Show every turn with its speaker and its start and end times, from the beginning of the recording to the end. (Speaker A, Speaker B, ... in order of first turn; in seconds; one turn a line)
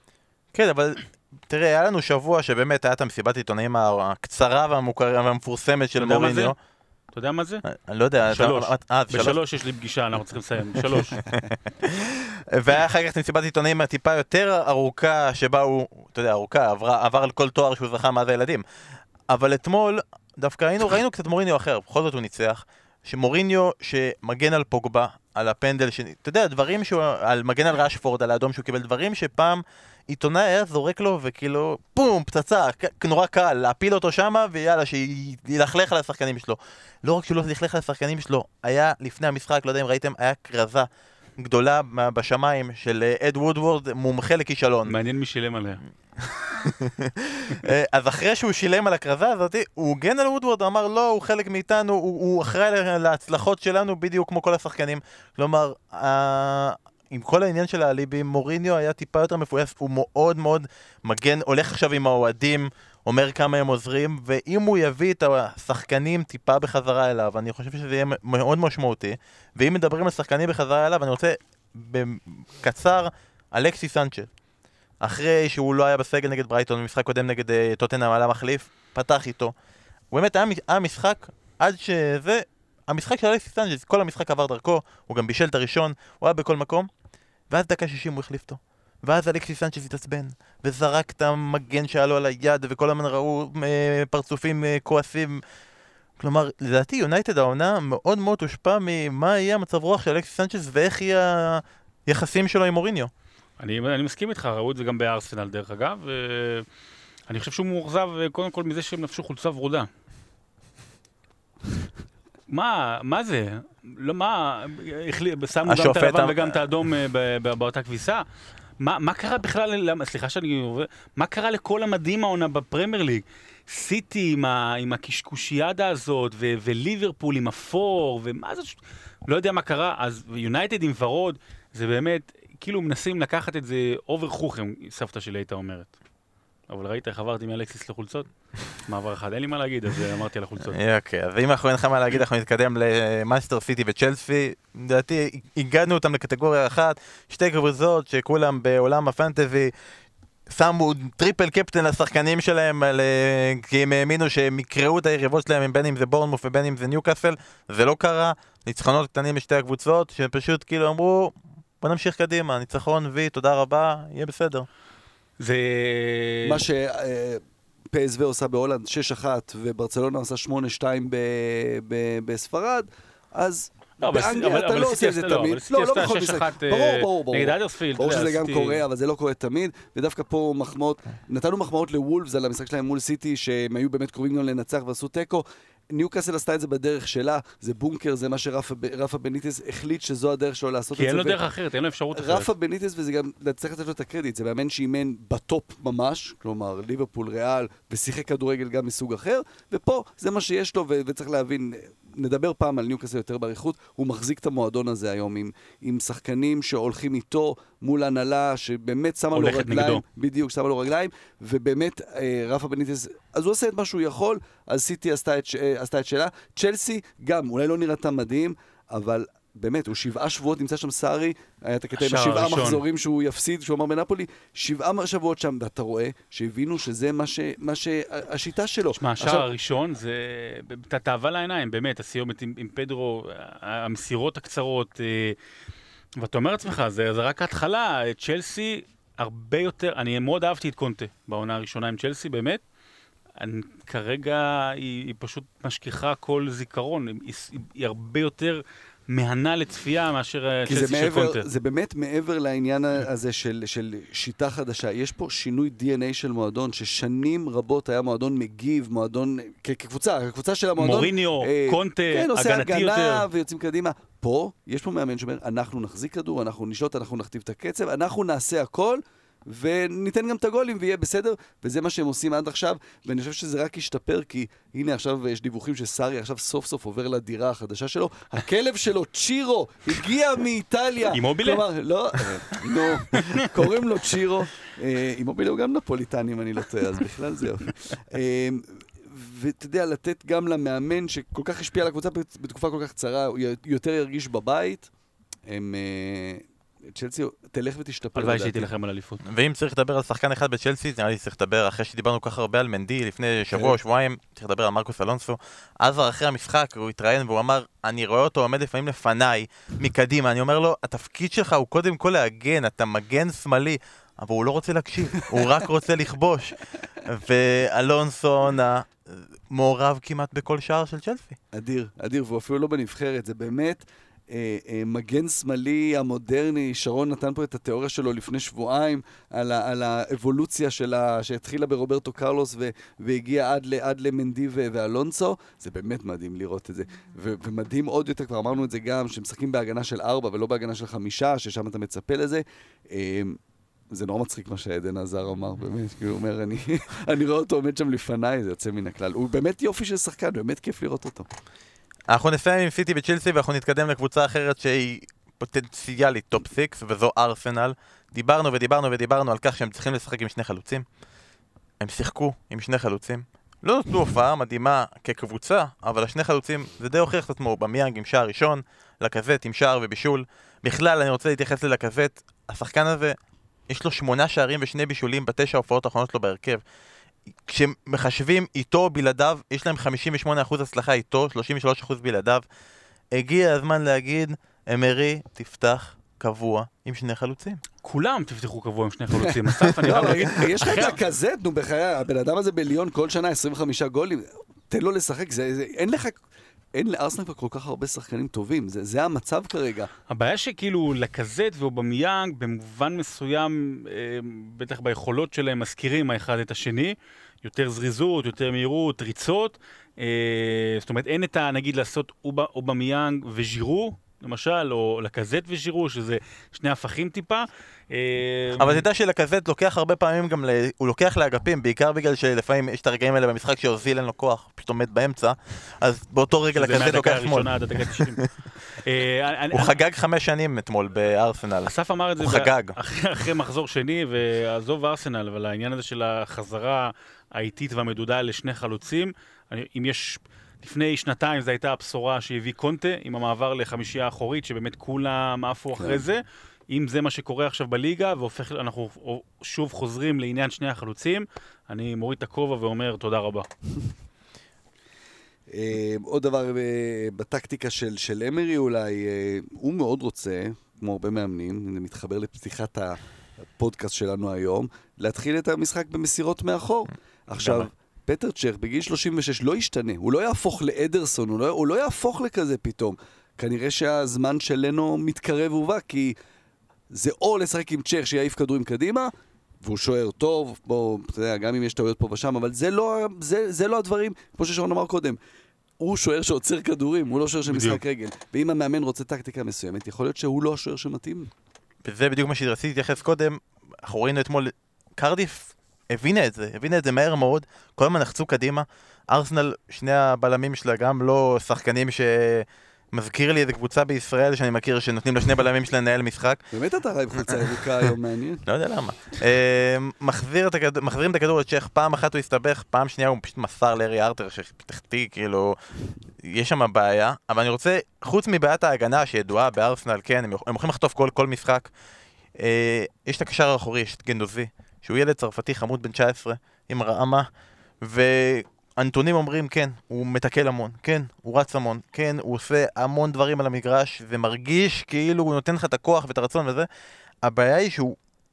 Speaker A: 0.5-6.5
Speaker B: 6.0-6.5
Speaker B: 7.1-7.6
Speaker A: 7.6-9.4
Speaker B: 8.3-11.2
Speaker A: 11.2-18.6
Speaker A: 19.3-44.9
Speaker B: 44.9-45.8
Speaker A: 46.2-74.3
Speaker A: 75.0-79.5
Speaker A: 80.1-86.9
Speaker A: 87.5-95.4
Speaker A: 96.2-103.1
Speaker B: 103.6-106.7
Speaker B: 107.3-109.9
Speaker B: 112.5-118.2
Speaker A: 115.7-116.6
Speaker B: 118.8-135.9
Speaker B: 136.7-140.8
Speaker A: 140.7-149.7
Speaker A: 150.5-164.7
Speaker B: 165.4-166.6
Speaker C: 166.4-167.4
Speaker C: 167.9-191.4
Speaker B: 174.0-178.8
Speaker B: 190.9-192.5
Speaker C: 192.1-229.5
Speaker B: 209.3-210.0
Speaker B: 222.0-222.8
Speaker B: 228.9-235.4
Speaker B: 236.2-242.6
Speaker B: 243.4-251.5
Speaker C: 250.7-294.9
Speaker B: 260.8-263.2
Speaker B: 281.1-283.5
Speaker C: 295.5-298.7
Speaker B: 298.1-299.2
Speaker A: 299.2-321.4
Speaker C: 321.5-343.4
Speaker C: 343.9-351.3
Speaker A: 352.1-360.8
Speaker A: 361.8-373.1
Speaker A: 373.7-376.6
Speaker A: 377.5-382.4
Speaker A: 383.1-387.6
Speaker B: 387.8-391.0
Speaker C: 389.2-396.2
Speaker A: 389.9-390.2
Speaker C: 396.7-399.9
Speaker B: 400.1-418.8
Speaker A: 418.6-428.3
Speaker B: 426.5-429.7
Speaker A: 429.5-432.8
Speaker B: 431.6-453.5
Speaker C: 455.5-463.0
Speaker C: 463.6-476.1
Speaker A: 467.4-467.7
Speaker C: 476.9-485.2
Speaker C: 485.8-491.3
Speaker B: 487.4-487.8
Speaker A: 491.8-506.4
Speaker C: 506.5-508.4
Speaker A: 508.4-515.6
Speaker A: 516.2-521.7
Speaker A: 522.4-527.2
Speaker A: 527.8-536.7
Speaker A: 537.2-538.0